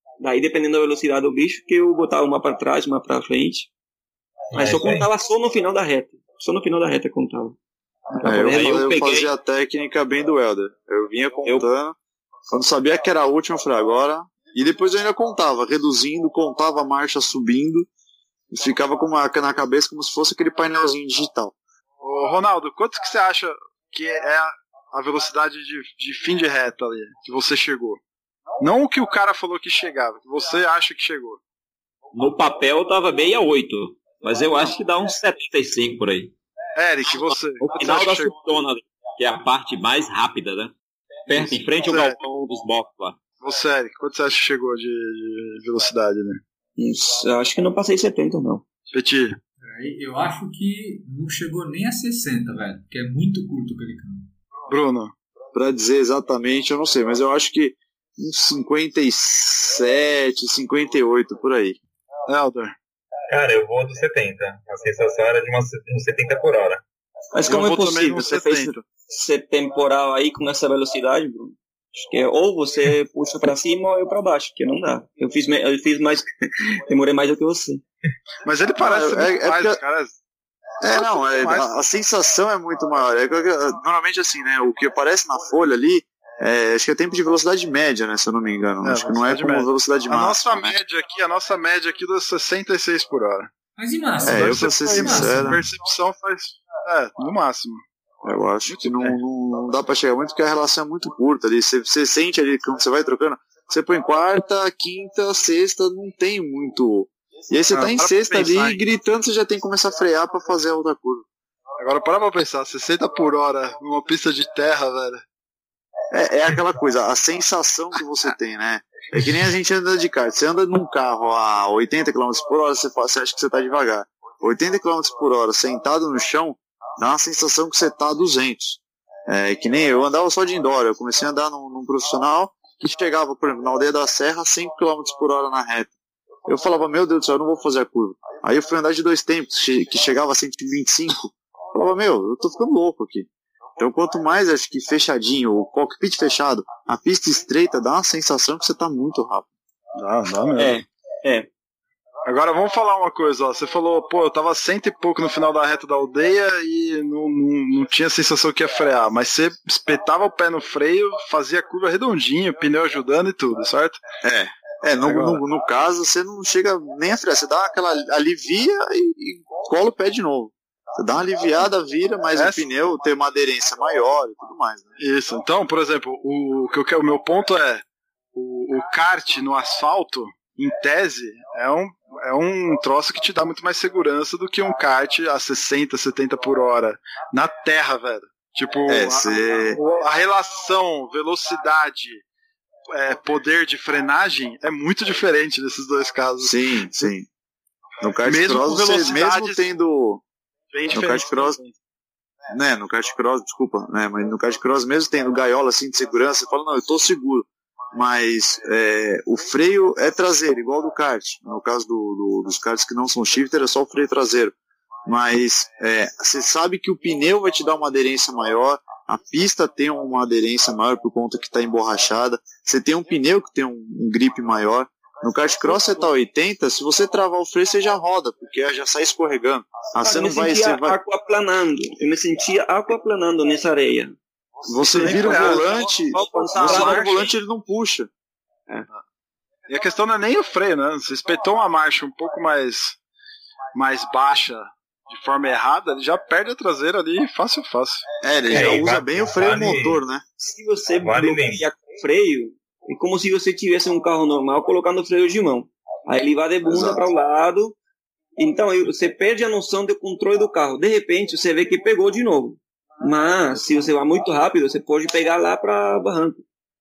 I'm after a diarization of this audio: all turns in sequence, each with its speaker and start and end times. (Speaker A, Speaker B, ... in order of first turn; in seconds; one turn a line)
Speaker A: 0.2-3.7
Speaker B: 4.5-5.1
Speaker A: 4.5-7.6
Speaker A: 8.1-9.1
Speaker C: 8.2-11.9
Speaker D: 8.3-9.3
Speaker C: 12.5-17.9
Speaker C: 18.5-21.6
Speaker E: 22.0-28.0
Speaker E: 28.6-31.4
Speaker D: 32.1-36.3
Speaker E: 36.8-38.3
Speaker D: 37.0-40.7
Speaker D: 41.3-43.2
Speaker E: 41.3-42.2
Speaker E: 43.4-46.4
Speaker A: 46.8-48.6
Speaker E: 48.9-49.4
Speaker F: 49.6-54.3
Speaker E: 54.7-55.1
Speaker C: 55.5-61.8
Speaker E: 62.3-62.8
Speaker B: 63.3-66.8
Speaker A: 67.3-77.8
Speaker E: 67.5-68.8
Speaker E: 78.5-80.1
Speaker C: 78.8-79.8
Speaker C: 80.8-90.8
Speaker E: 80.8-81.7
Speaker E: 88.8-93.5
Speaker F: 93.8-95.6
Speaker E: 94.2-97.8
Speaker C: 94.3-95.6
Speaker C: 98.2-111.2
Speaker E: 98.7-99.2
Speaker E: 107.7-108.8
Speaker E: 111.8-115.2
Speaker C: 116.1-135.9
Speaker C: 136.5-143.3
Speaker C: 143.8-149.5
Speaker E: 150.0-150.8
Speaker A: 150.6-151.5
Speaker E: 152.2-164.0
Speaker C: 164.2-174.9
Speaker E: 165.0-165.4
Speaker E: 172.4-172.7
Speaker E: 175.0-177.8
Speaker E: 178.3-192.2
Speaker C: 188.9-189.8
Speaker E: 192.9-196.6
Speaker C: 196.4-197.3
Speaker C: 198.0-200.2
Speaker E: 198.2-199.6
Speaker E: 200.7-201.7
Speaker C: 200.9-201.6
Speaker C: 202.5-214.5
Speaker C: 215.1-231.0
Speaker A: 230.0-234.2
Speaker C: 234.7-238.1
Speaker E: 234.8-237.3
Speaker A: 234.8-237.3
Speaker E: 239.7-243.0
Speaker E: 243.7-248.0
Speaker C: 248.2-250.2
Speaker B: 248.5-250.0
Speaker A: 250.4-257.8
Speaker B: 251.0-251.6
Speaker C: 256.6-257.1
Speaker A: 258.4-266.4